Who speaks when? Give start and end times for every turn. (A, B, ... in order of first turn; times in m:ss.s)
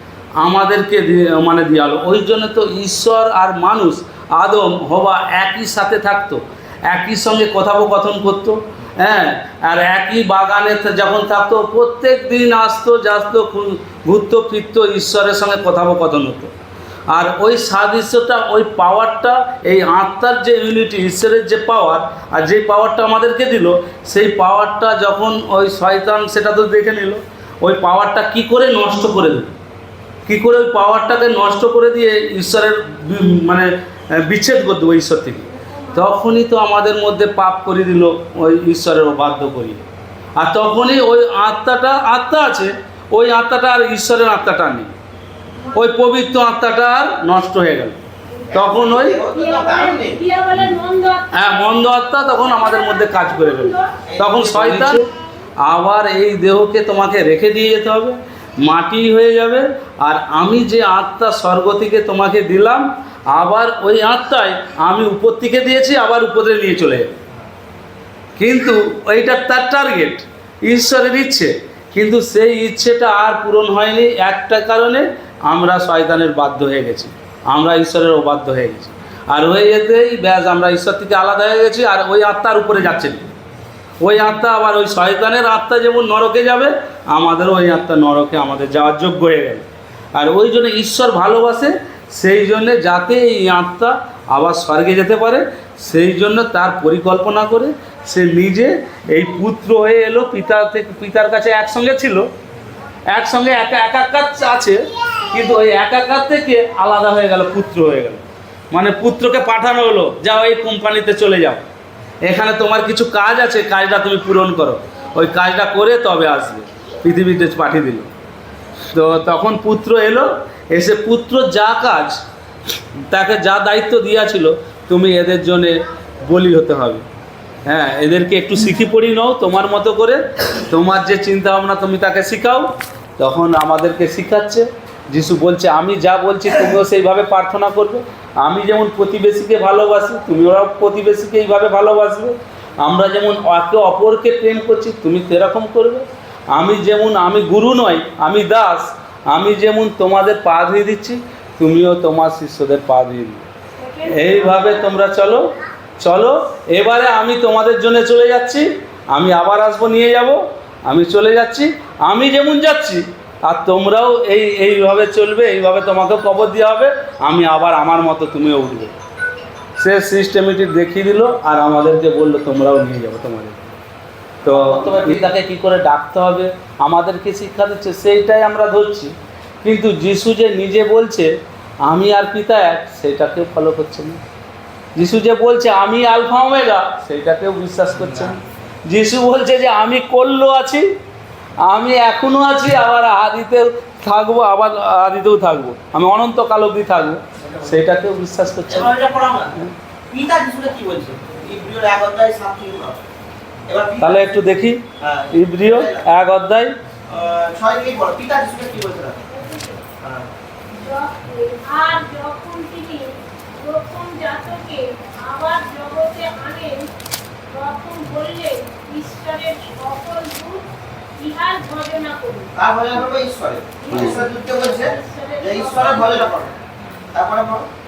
0:00.4-0:16.5 A
0:17.1-0:29.5 A
0:30.3-0:39.8 A
0:35.6-0:36.2 B
0:40.4-0:44.9 A
0:45.6-0:45.9 B
0:45.7-0:48.0 A
0:48.5-0:49.2 A
0:48.5-0:50.2 C
0:49.2-0:54.0 B
0:51.3-0:55.0 A
0:54.1-0:55.0 C
0:55.6-1:07.2 A
1:08.4-1:23.2 A
1:24.0-1:42.3 A
1:43.1-1:51.6 A
1:52.2-1:58.1 A
1:58.9-2:02.2 A
2:03.1-2:07.0 A
2:07.6-2:33.4 A
2:33.8-2:35.0 B
2:34.0-2:48.9 A
2:49.8-2:53.6 A
2:54.4-2:55.3 C
2:54.4-3:04.2 A
3:05.0-3:10.9 A
3:11.6-3:19.0 A
3:18.7-3:19.5 C
3:20.1-3:23.1 C
3:23.7-3:24.2 C
3:24.0-3:26.7 A
3:25.0-3:26.0 C
3:27.1-3:29.2 C
3:29.3-3:29.8 B
3:30.0-3:30.3 C
3:30.8-3:36.9 B
3:37.5-3:40.7 B
3:41.2-3:42.5 B
3:42.6-3:46.5 C
3:43.8-3:46.5 B
3:43.9-3:44.2 A
3:47.1-3:47.7 C